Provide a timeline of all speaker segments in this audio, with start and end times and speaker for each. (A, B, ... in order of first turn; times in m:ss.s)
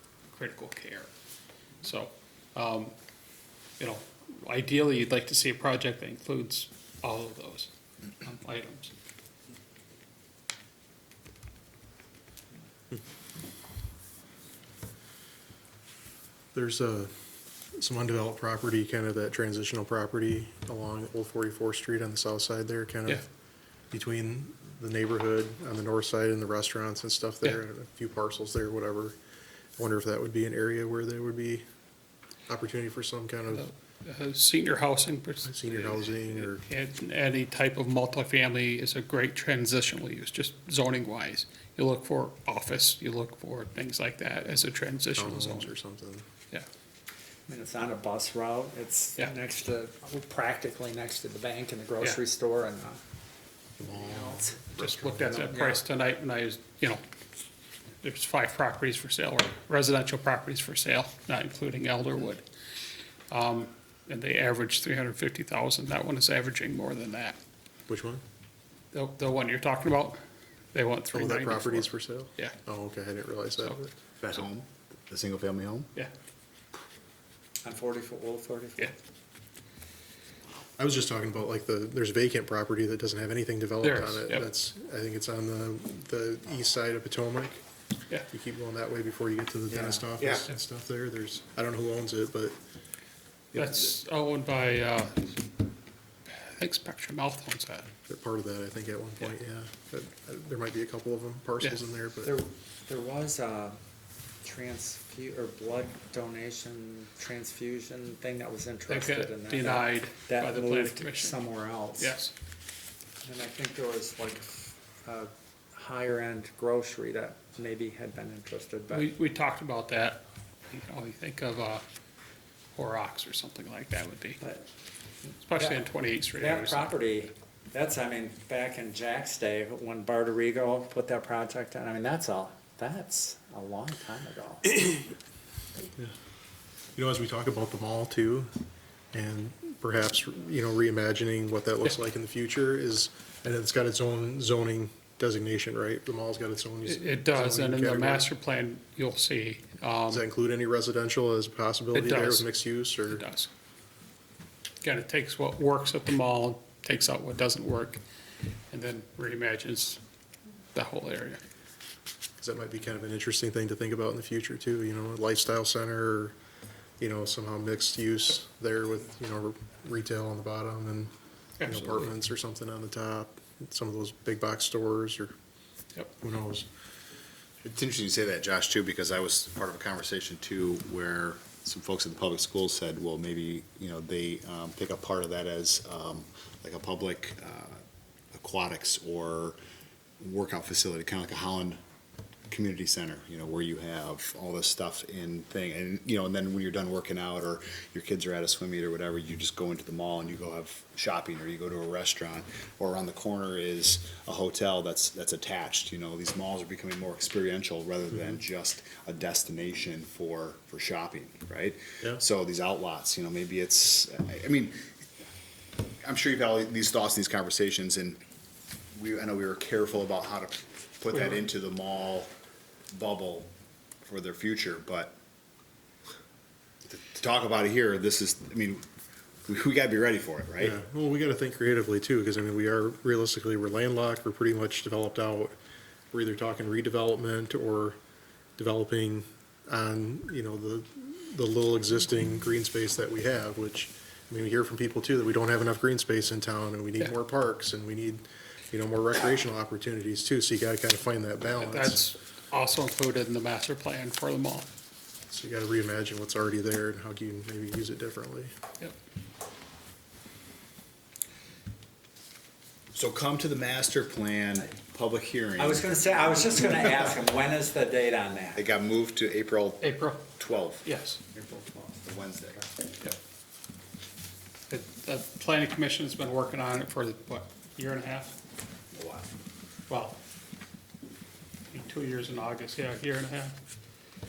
0:00.3-0:01.1 A
0:01.8-0:02.9 A
0:03.8-0:07.7 A
0:08.2-0:08.9 A
0:16.5-0:17.1 B
0:17.8-0:23.2 B
0:23.9-0:29.2 B
0:29.8-0:31.6 B
0:32.5-0:33.7 B
0:33.5-0:45.7 A
0:35.4-0:36.6 B
0:45.2-0:46.2 B
0:47.5-0:53.0 C
0:53.8-0:55.3 B
0:53.9-0:55.8 C
0:54.8-0:57.0 A
0:58.0-1:02.4 A
1:03.3-1:07.4 A
1:07.9-1:08.2 B
1:08.9-1:10.2 A
1:10.7-1:12.6 A
1:11.1-1:13.9 B
1:14.2-1:15.9 D
1:17.6-1:18.9 C
1:20.8-1:27.6 B
1:23.8-1:24.4 A
1:28.3-1:32.6 B
1:29.7-1:30.1 C
1:30.2-1:30.5 D
1:33.5-1:33.9 B
1:33.6-1:35.4 A
1:36.3-1:37.9 A
1:38.1-1:42.3 B
1:42.2-1:43.8 C
1:44.4-1:52.2 C
1:48.9-1:51.4 A
1:52.0-1:52.3 A
1:53.2-1:59.1 C
1:58.9-2:01.8 A
2:02.8-2:04.4 A
2:04.4-2:04.7 C
2:05.4-2:06.9 A
2:05.6-2:05.8 C
2:06.4-2:14.8 C
2:14.8-2:15.1 B
2:17.0-2:18.5 B
2:19.1-2:28.3 B
2:26.9-2:30.2 A
2:30.1-2:33.3 B
2:31.9-2:32.5 A
2:33.1-2:33.5 A
2:34.8-2:38.0 A
2:38.7-2:40.0 A
2:40.7-2:41.4 A
2:42.4-2:46.4 B
2:47.0-2:51.1 B
2:51.6-2:52.1 A
2:51.6-2:55.3 B
2:56.2-2:56.7 B
2:57.6-3:07.8 D
3:08.3-3:09.6 D
3:10.2-3:11.8 D
3:12.5-3:34.8 D
3:36.0-3:38.2 D
3:38.9-3:42.3 D
3:42.9-3:43.5 D
3:44.0-3:45.2 D
3:46.9-3:48.8 D
3:49.5-3:50.8 D
3:50.6-3:55.6 B
3:56.1-3:58.0 B
3:58.6-4:12.1 B
4:11.6-4:14.7 A
4:15.3-4:18.5 B
4:22.9-4:25.9 D
4:25.6-4:28.6 C
4:28.6-4:30.8 D
4:29.8-4:30.3 A
4:30.8-4:31.2 A
4:31.4-4:31.8 C
4:32.0-4:32.7 D
4:34.7-4:38.4 A
4:38.9-4:39.3 D
4:39.9-4:40.2 A
4:41.7-4:43.6 A